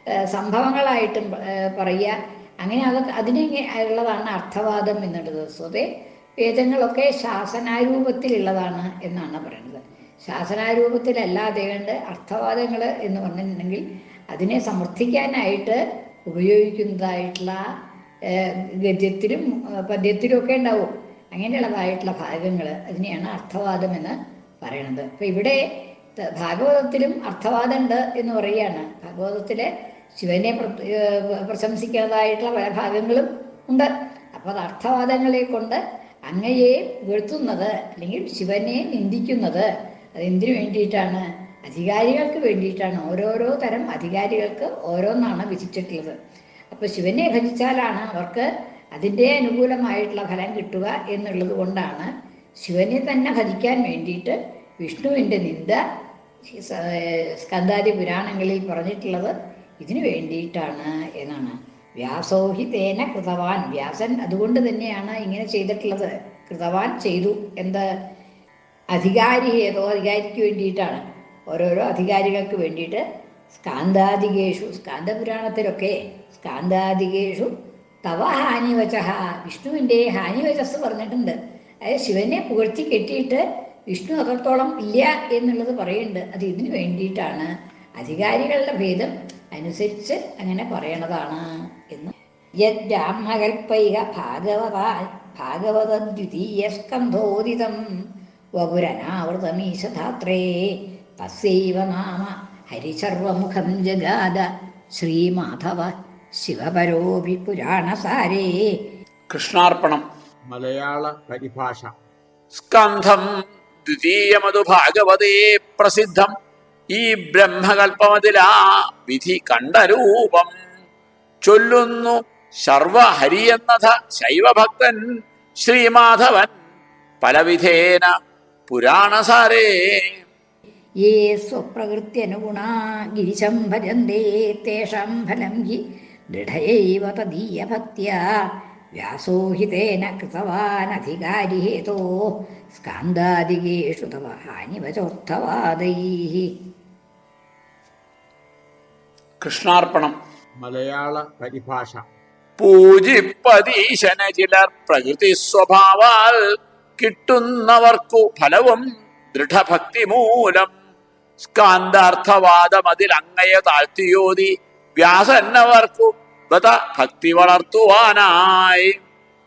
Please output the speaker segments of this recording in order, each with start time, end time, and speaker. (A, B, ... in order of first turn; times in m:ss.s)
0:00.1-0:17.6 A
0:18.3-0:25.6 A
0:26.2-0:46.2 A
0:46.7-0:52.1 A
0:52.6-0:55.8 A
0:56.4-1:07.8 A
1:08.9-1:17.5 A
1:18.0-1:32.1 A
1:32.6-1:37.8 A
1:38.6-1:48.8 A
1:49.3-1:50.1 B
1:50.5-1:51.9 C
1:52.6-1:53.3 B
1:53.9-1:56.3 B
1:56.9-2:00.6 B
2:01.4-2:05.0 B
2:05.6-2:06.5 B
2:07.2-2:08.1 B
2:08.7-2:10.2 B
2:11.0-2:26.5 A
2:29.4-2:30.2 B
2:30.6-2:32.0 C
2:32.6-2:36.4 B
2:37.0-2:40.7 B
2:41.4-2:49.0 B